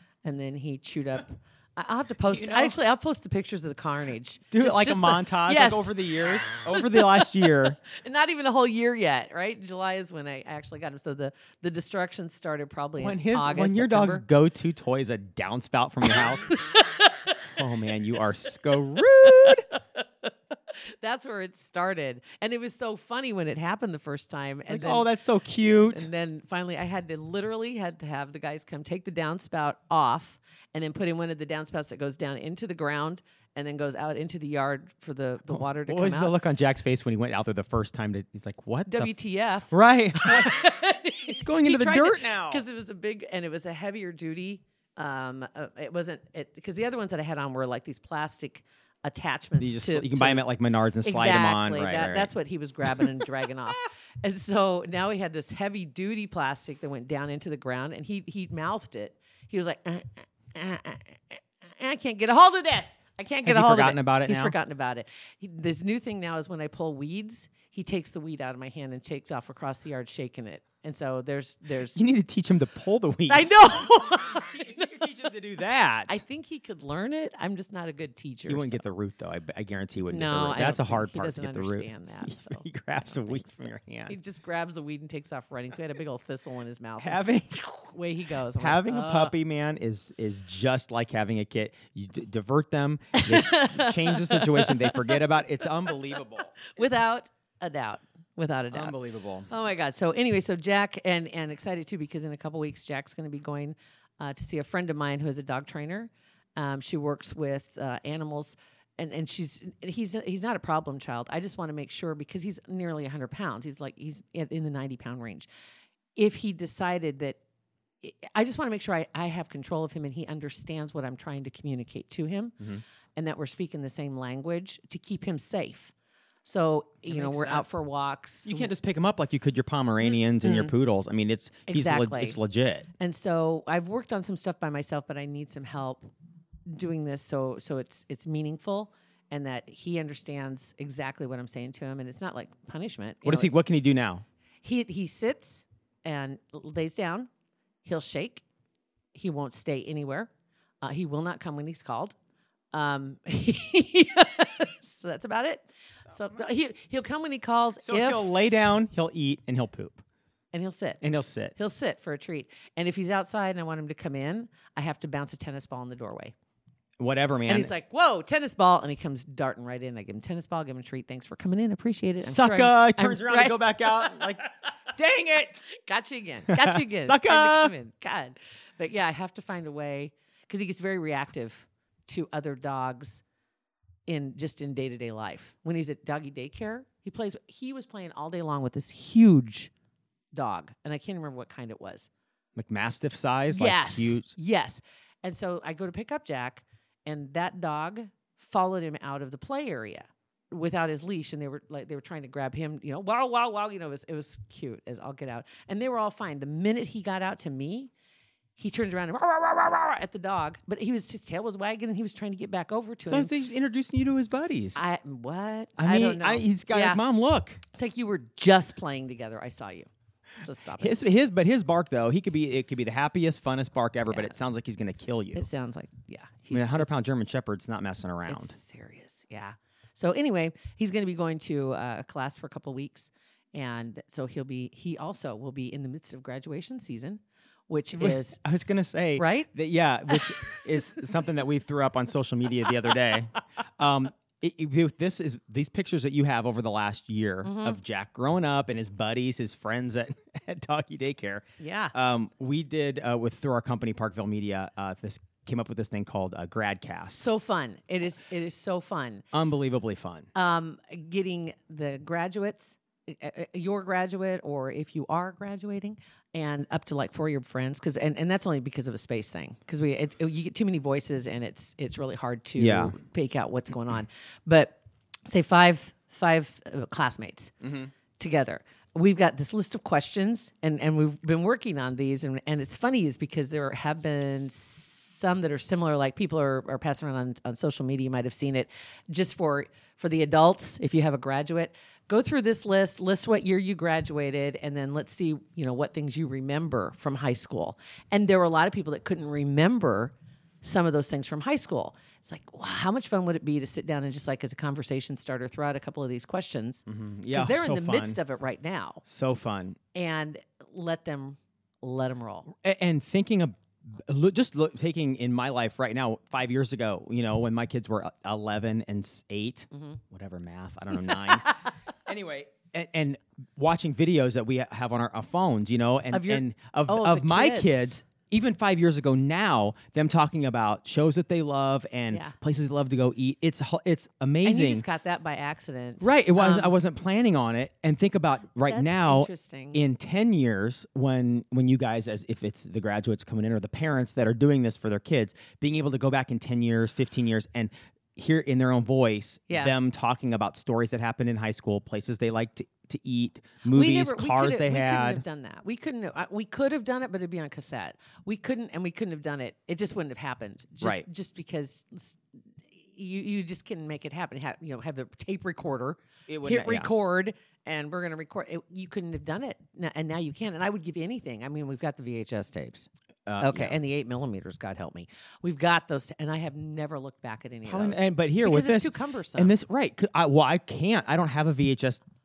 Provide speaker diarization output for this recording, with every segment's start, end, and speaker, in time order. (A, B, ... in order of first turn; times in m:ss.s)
0:00.2-0:14.2 A
0:02.2-0:02.7 B
0:04.5-0:07.8 B
0:13.0-0:16.5 B
0:16.1-0:17.5 A
0:17.6-0:19.6 B
0:19.2-0:25.1 A
0:24.7-0:26.1 B
0:25.6-0:36.3 A
0:35.5-0:39.1 B
0:38.9-0:50.5 A
0:39.7-0:40.6 B
0:41.3-0:42.6 B
0:49.6-0:52.3 B
0:51.0-1:12.0 A
1:03.4-1:04.5 B
1:11.9-1:16.2 B
1:13.3-1:14.9 A
1:16.1-1:18.8 A
1:18.5-1:24.1 B
1:20.1-1:29.3 A
1:27.0-1:27.6 B
1:28.6-1:36.7 B
1:33.1-1:55.5 A
1:38.7-1:39.5 B
1:56.2-1:57.4 A
1:58.0-2:02.6 A
2:03.2-2:05.9 A
2:06.4-2:08.7 A
2:07.1-2:07.7 B
2:08.4-2:12.9 B
2:10.0-2:10.7 A
2:11.7-2:12.4 A
2:13.0-2:16.1 A
2:16.7-2:23.6 A
2:23.2-2:24.2 B
2:24.6-2:27.3 A
2:27.8-2:28.4 A
2:29.1-2:30.3 A
2:30.8-2:32.2 A
2:32.7-2:38.3 A
2:37.8-2:40.0 B
2:40.5-2:41.0 A
2:41.0-2:41.5 B
2:41.5-2:46.3 A
2:47.0-2:47.7 B
2:47.4-2:54.4 A
2:52.2-2:55.6 B
2:55.7-3:03.2 A
2:56.5-2:57.7 B
3:04.1-3:09.7 A
3:10.3-3:12.1 A
3:12.6-3:14.3 B
3:13.5-3:27.9 A
3:28.6-3:33.3 A
3:33.0-3:34.8 B
3:34.7-3:37.0 A
3:35.8-3:37.6 B
3:37.7-3:41.0 A
3:40.8-3:45.5 B
3:44.1-3:44.4 A
3:45.3-3:47.0 A
3:46.5-3:48.6 B
3:48.3-3:58.4 A
3:57.9-4:17.2 B
3:59.2-3:59.5 A
4:07.4-4:07.8 A
4:11.6-4:11.9 A
4:17.1-4:19.2 A
4:19.3-4:20.3 B
4:20.3-5:09.0 A
4:32.6-4:33.0 B
4:37.6-4:37.9 B
5:06.9-5:08.2 B
5:09.0-5:09.8 B
5:09.9-5:12.5 A
5:12.5-5:34.8 B
5:19.7-5:20.0 A
5:20.9-5:21.5 A
5:26.1-5:28.0 A
5:32.1-5:32.3 A
5:34.4-5:36.7 A
5:36.0-5:55.2 B
5:38.6-5:39.8 A
5:49.5-5:49.7 A
5:53.7-6:02.2 A
6:02.7-6:12.9 A
6:06.3-6:06.9 B
6:13.3-6:13.8 B
6:13.4-6:19.5 A
6:17.6-6:22.0 B